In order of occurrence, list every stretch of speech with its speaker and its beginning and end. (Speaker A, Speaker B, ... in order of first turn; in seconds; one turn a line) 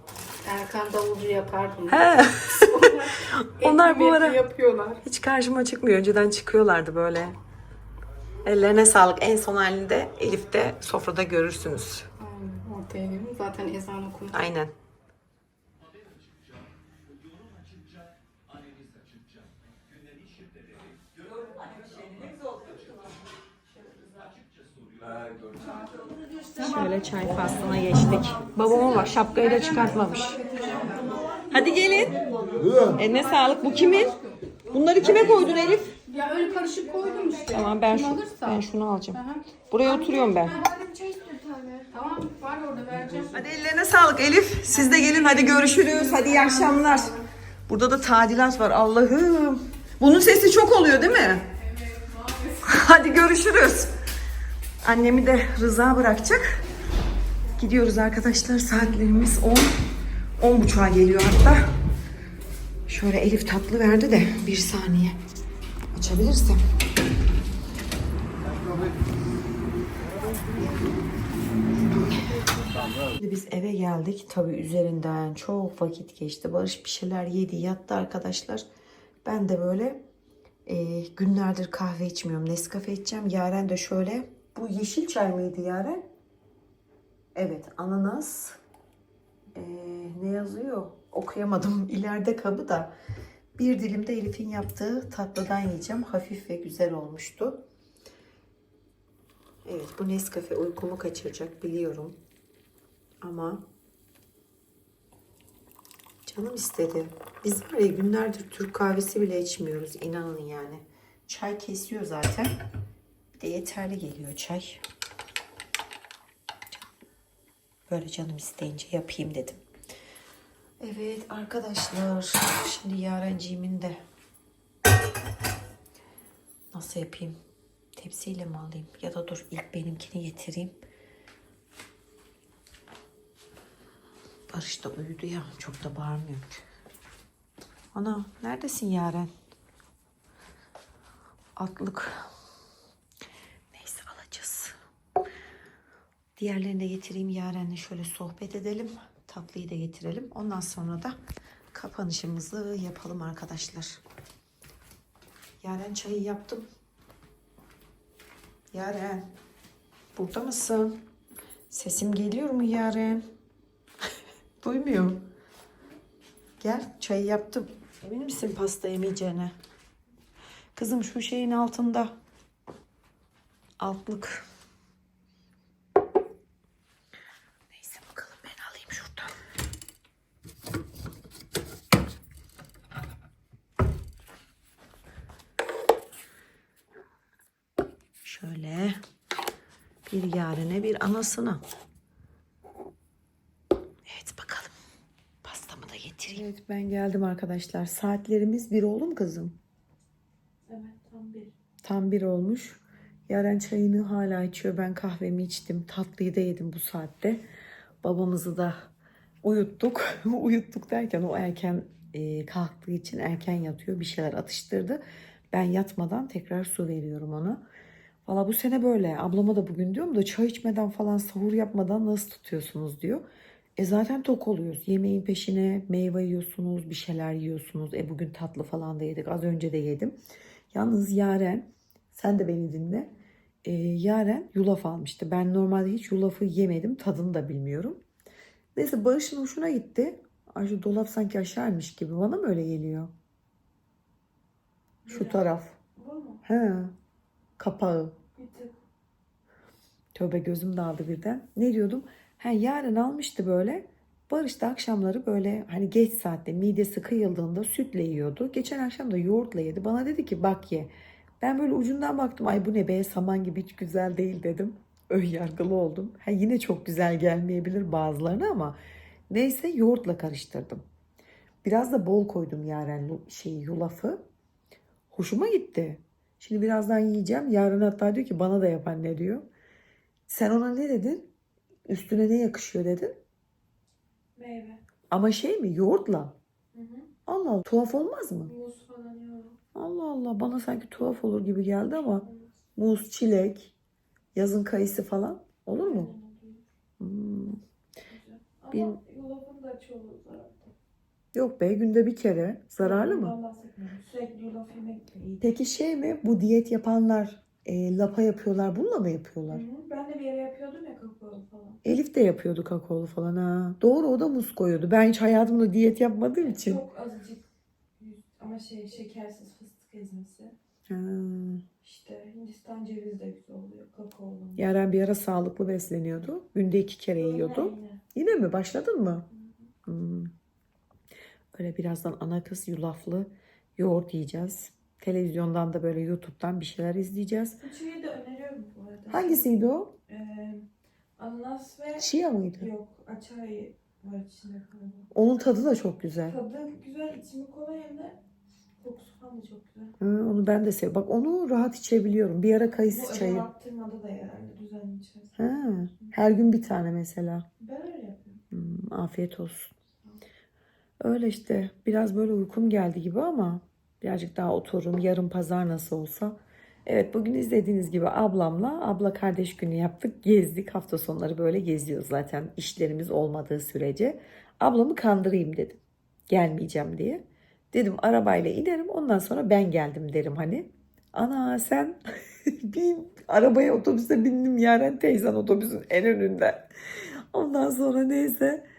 Speaker A: 0.5-5.0
Speaker B: 1.9-4.4
Speaker B: 5.0-7.3
Speaker B: 8.4-12.1
Speaker A: 12.2-14.4
Speaker B: 14.3-14.7
Speaker B: 26.6-30.4
Speaker A: 29.6-31.0
Speaker B: 31.5-32.1
Speaker B: 33.0-34.2
Speaker A: 33.6-34.4
Speaker B: 34.7-35.9
Speaker A: 36.1-38.6
Speaker B: 37.5-40.6
Speaker A: 39.1-39.5
Speaker A: 41.9-43.4
Speaker B: 43.3-51.5
Speaker A: 44.7-47.2
Speaker B: 52.6-53.9
Speaker B: 54.8-56.6
Speaker B: 57.6-59.7
Speaker B: 60.4-61.6
Speaker B: 62.9-65.2
Speaker B: 65.9-66.6
Speaker B: 73.2-78.7
Speaker B: 79.2-80.0
Speaker B: 80.7-86.0
Speaker B: 87.3-88.6
Speaker B: 89.5-92.9
Speaker B: 93.6-97.6
Speaker B: 99.7-102.2
Speaker B: 103.2-103.6
Speaker B: 106.3-112.5
Speaker B: 113.4-114.8
Speaker B: 117.9-119.6
Speaker B: 120.8-124.0
Speaker B: 126.7-127.4
Speaker B: 128.0-130.8
Speaker B: 134.5-136.6
Speaker B: 137.9-139.3
Speaker B: 141.6-142.3
Speaker B: 143.7-144.8
Speaker B: 146.4-151.2
Speaker B: 151.7-154.0
Speaker B: 155.6-156.7
Speaker B: 158.7-159.3
Speaker B: 160.2-161.0
Speaker B: 161.7-163.2
Speaker B: 164.6-165.2
Speaker B: 166.6-169.6
Speaker B: 170.8-172.2
Speaker B: 173.8-174.4
Speaker B: 177.7-179.3
Speaker B: 188.2-189.0
Speaker B: 190.1-191.6
Speaker B: 194.1-194.7
Speaker B: 195.4-199.6
Speaker C: 200.7-201.5
Speaker B: 201.8-207.4
Speaker B: 208.0-208.9
Speaker B: 209.4-217.6
Speaker B: 218.3-223.2
Speaker B: 223.8-230.2
Speaker B: 230.7-233.1
Speaker B: 233.6-238.0
Speaker B: 238.8-243.1
Speaker C: 245.1-245.4
Speaker B: 245.1-245.8
Speaker C: 246.0-246.4
Speaker B: 246.4-246.9
Speaker B: 247.6-248.2
Speaker C: 248.3-248.8
Speaker B: 250.2-268.8
Speaker B: 269.3-270.8
Speaker B: 271.6-274.2
Speaker B: 275.1-279.5
Speaker B: 280.3-281.3
Speaker B: 281.9-283.1
Speaker C: 284.4-284.8
Speaker B: 285.1-286.4
Speaker C: 286.7-287.1
Speaker B: 287.3-288.5
Speaker C: 288.5-289.6
Speaker B: 289.8-293.7
Speaker C: 292.1-292.5
Speaker B: 294.4-296.1
Speaker C: 295.8-296.6
Speaker B: 297.0-297.6
Speaker C: 298.1-300.7
Speaker B: 298.7-299.0
Speaker B: 301.3-303.4
Speaker C: 302.8-305.4
Speaker B: 305.4-309.6
Speaker C: 309.5-311.8
Speaker B: 311.8-316.8
Speaker C: 316.4-317.4
Speaker C: 318.0-320.6
Speaker B: 320.9-321.6
Speaker C: 321.8-324.6
Speaker B: 324.6-329.3
Speaker C: 327.2-328.0
Speaker C: 329.4-329.6
Speaker B: 329.9-330.3
Speaker B: 331.5-337.6
Speaker C: 337.6-339.5
Speaker B: 339.1-339.9
Speaker C: 340.1-340.6
Speaker C: 341.2-345.1
Speaker B: 342.0-342.7
Speaker B: 345.1-346.4
Speaker C: 346.3-348.2
Speaker C: 348.8-349.9
Speaker B: 350.0-353.5
Speaker C: 352.9-355.4
Speaker B: 355.4-357.5
Speaker C: 357.6-358.4
Speaker B: 358.5-359.7
Speaker B: 361.0-386.7
Speaker B: 387.3-388.6